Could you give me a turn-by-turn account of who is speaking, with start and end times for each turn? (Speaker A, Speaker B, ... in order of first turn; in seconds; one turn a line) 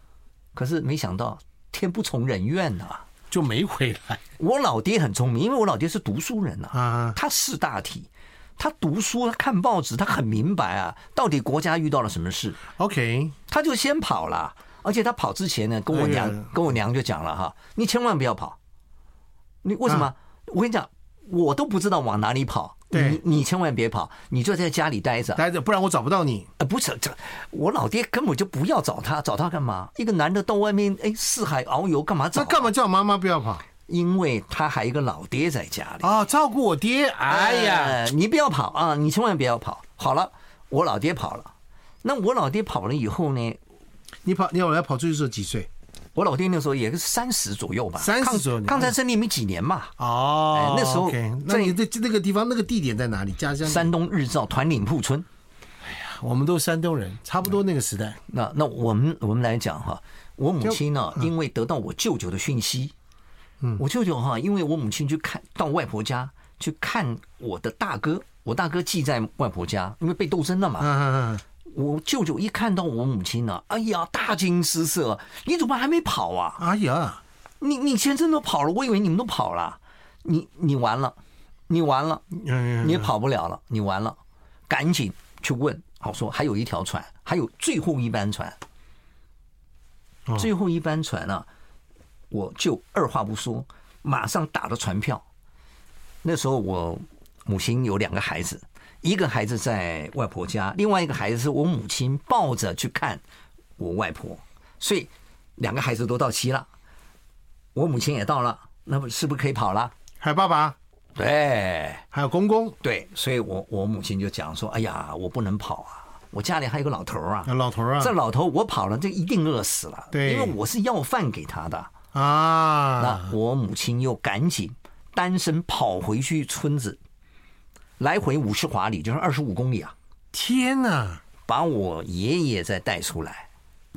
Speaker A: 0.5-3.0
Speaker B: 3.3-4.2
Speaker A: 4.4-12.6
Speaker B: 6.7-7.2
Speaker B: 12.8-13.3
Speaker A: 13.5-18.6
Speaker B: 15.9-16.5
Speaker A: 19.6-25.4
Speaker B: 22.9-23.2
Speaker B: 25.3-26.5
Speaker A: 26.6-32.7
Speaker B: 32.3-33.6
Speaker A: 33.9-36.1
Speaker B: 36.0-38.0
Speaker A: 37.2-41.5
Speaker A: 42.0-43.6
Speaker B: 44.2-45.7
Speaker A: 46.1-49.9
Speaker B: 48.0-48.9
Speaker B: 50.0-53.9
Speaker A: 50.5-51.8
Speaker A: 53.6-55.2
Speaker B: 55.8-58.2
Speaker A: 58.3-62.9
Speaker A: 63.8-70.9
Speaker B: 70.8-71.4
Speaker A: 71.6-76.6
Speaker B: 76.6-77.2
Speaker A: 77.6-81.2
Speaker A: 81.7-82.2
Speaker B: 82.3-83.1
Speaker A: 82.8-88.6
Speaker A: 90.4-91.5
Speaker A: 92.3-95.2
Speaker A: 96.2-103.2
Speaker A: 103.8-106.7
Speaker A: 107.7-109.9
Speaker B: 110.2-110.8
Speaker A: 111.2-112.0
Speaker B: 112.1-112.7
Speaker A: 112.8-121.9
Speaker B: 117.5-118.1
Speaker B: 120.1-120.5
Speaker B: 122.1-123.3
Speaker A: 123.0-127.0
Speaker A: 128.0-129.9
Speaker B: 130.3-131.2
Speaker A: 131.4-133.4